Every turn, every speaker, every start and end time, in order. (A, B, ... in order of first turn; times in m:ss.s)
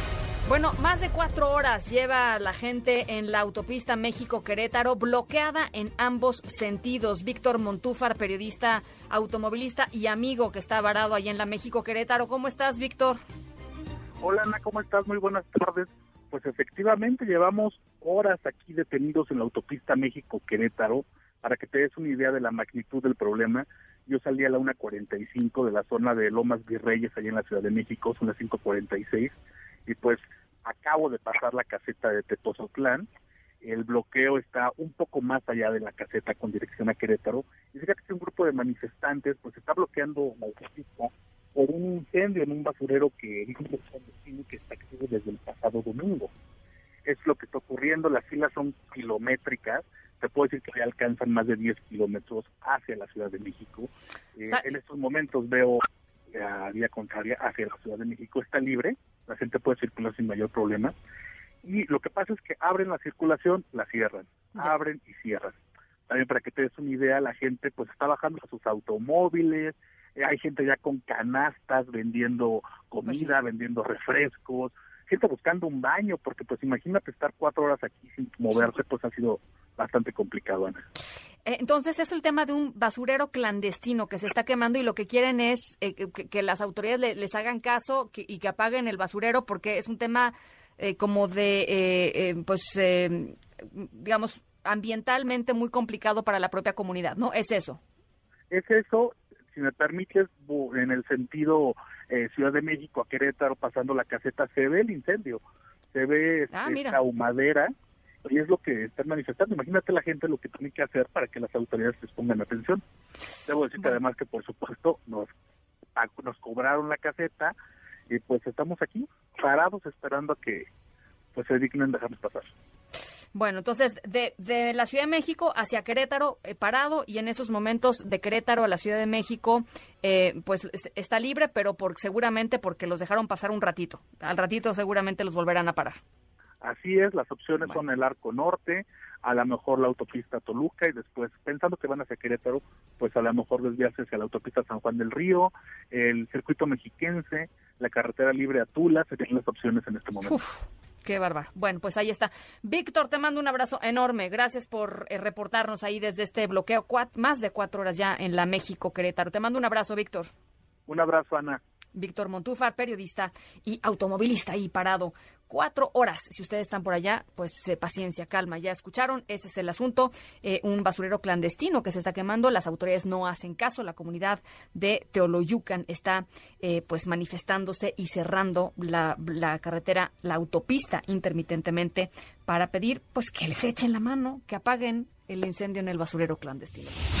0:00.4-0:13.2 A
0:14.2-0:29.3 B
0:29.8-0:33.0 B
0:33.6-0:46.3 B
0:47.0-1:00.9 B
0:54.5-0:54.8 A
1:01.6-1:05.6 B
1:04.5-1:04.8 A
1:06.1-1:20.8 B
1:13.0-1:13.4 A
1:21.4-1:37.8 A
1:38.5-1:45.4 B
1:45.9-1:47.7 B
1:46.5-1:47.0 A
1:48.2-1:52.8 B
1:53.4-1:55.3 B
1:55.9-1:57.5 B
1:58.1-2:00.6 B
2:01.3-2:02.5 B
2:03.3-2:16.0 A
2:16.6-2:30.4 B
2:30.2-2:40.3 A
2:40.9-2:41.6 B
2:41.9-3:07.0 A